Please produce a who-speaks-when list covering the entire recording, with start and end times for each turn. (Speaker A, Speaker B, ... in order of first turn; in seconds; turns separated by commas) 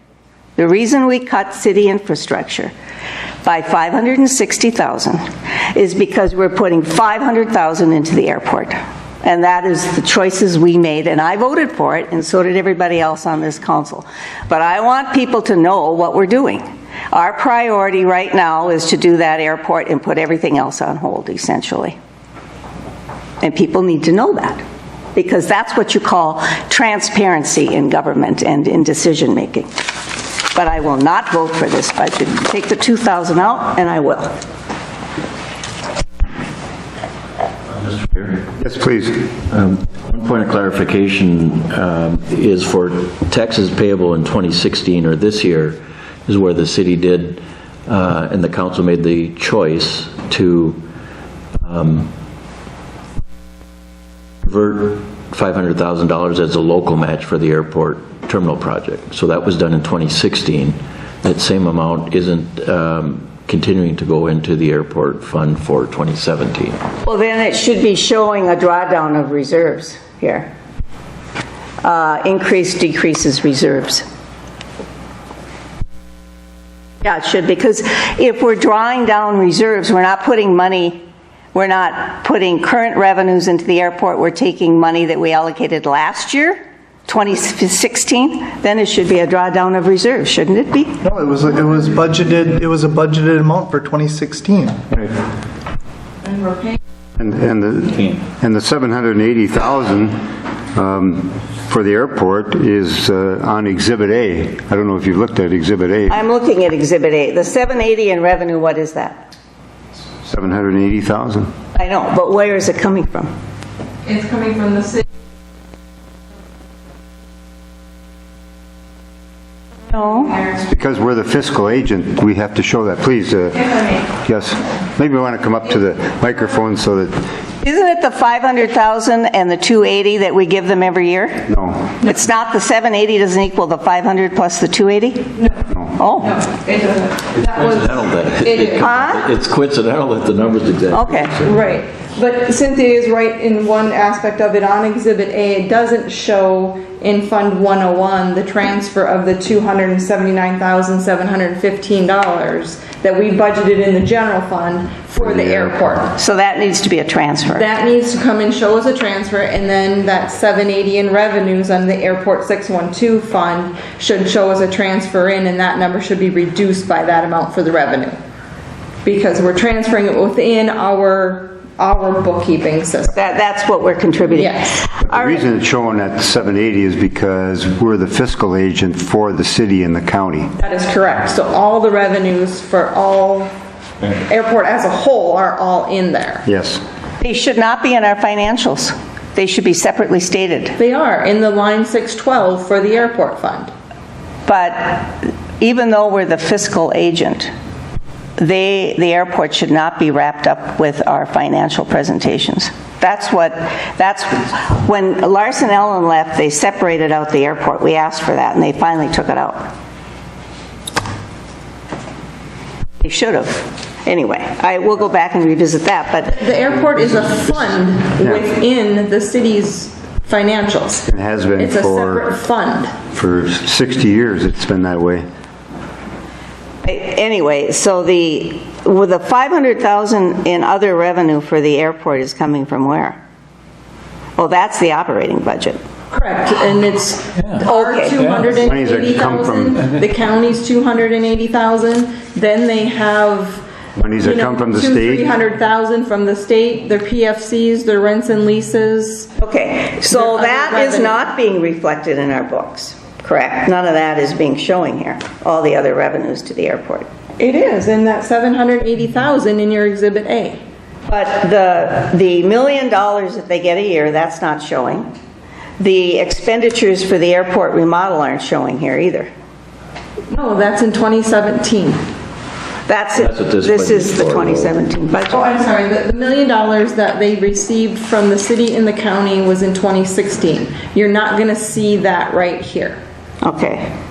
Speaker A: 0.6-2.7, Speaker A: 3.4-21.9, Speaker A: 23.4-24.6, Speaker A: 25.1-29.7, Speaker A: 30.4-34.3, Speaker B: 37.7-38.5, Speaker C: 38.6-39.3, Speaker B: 39.5-50.8, Speaker B: 51.6-52.1, Speaker B: 54.4-66.8, Speaker A: 67.0-70.5, Speaker A: 71.8-74.0, Speaker A: 77.0-91.0, Speaker D: 91.0-94.9, Speaker E: 96.2-96.8, Speaker C: 97.2-106.2, Speaker A: 106.1-109.3, Speaker C: 110.2-111.5, Speaker A: 111.7-113.3, Speaker E: 114.0-115.1, Speaker A: 119.9-120.5, Speaker C: 120.6-127.2, Speaker A: 127.6-131.5, Speaker C: 131.5-132.0, Speaker A: 132.0-135.4, Speaker A: 136.0-136.4, Speaker E: 136.3-137.9, Speaker B: 137.3-141.5, Speaker E: 138.4-138.8, Speaker A: 138.8-139.2, Speaker A: 140.9-141.3, Speaker E: 141.4-156.2, Speaker C: 155.2-156.0, Speaker A: 156.2-157.7, Speaker E: 157.5-168.1, Speaker E: 169.0-173.2, Speaker A: 173.1-175.4, Speaker E: 174.3-174.8, Speaker C: 175.0-180.5, Speaker E: 180.6-183.5, Speaker E: 184.0-186.4, Speaker C: 186.4-186.8, Speaker A: 187.2-190.8, Speaker E: 190.8-193.7, Speaker A: 194.4-197.5, Speaker A: 198.4-209.7, Speaker A: 213.0-216.4, Speaker E: 216.2-221.1, Speaker C: 221.1-222.3, Speaker E: 221.6-222.9, Speaker C: 223.1-225.2, Speaker A: 226.8-233.2, Speaker A: 234.4-235.8, Speaker E: 236.1-243.6, Speaker A: 237.6-238.4, Speaker C: 238.5-239.8, Speaker C: 243.9-245.3, Speaker E: 244.2-249.3, Speaker A: 249.4-257.1, Speaker E: 250.1-251.2, Speaker E: 257.4-260.6, Speaker A: 261.1-265.1, Speaker A: 265.8-269.3, Speaker E: 270.3-272.0, Speaker A: 272.9-275.4, Speaker B: 273.1-274.8, Speaker E: 275.3-283.0, Speaker A: 283.4-283.9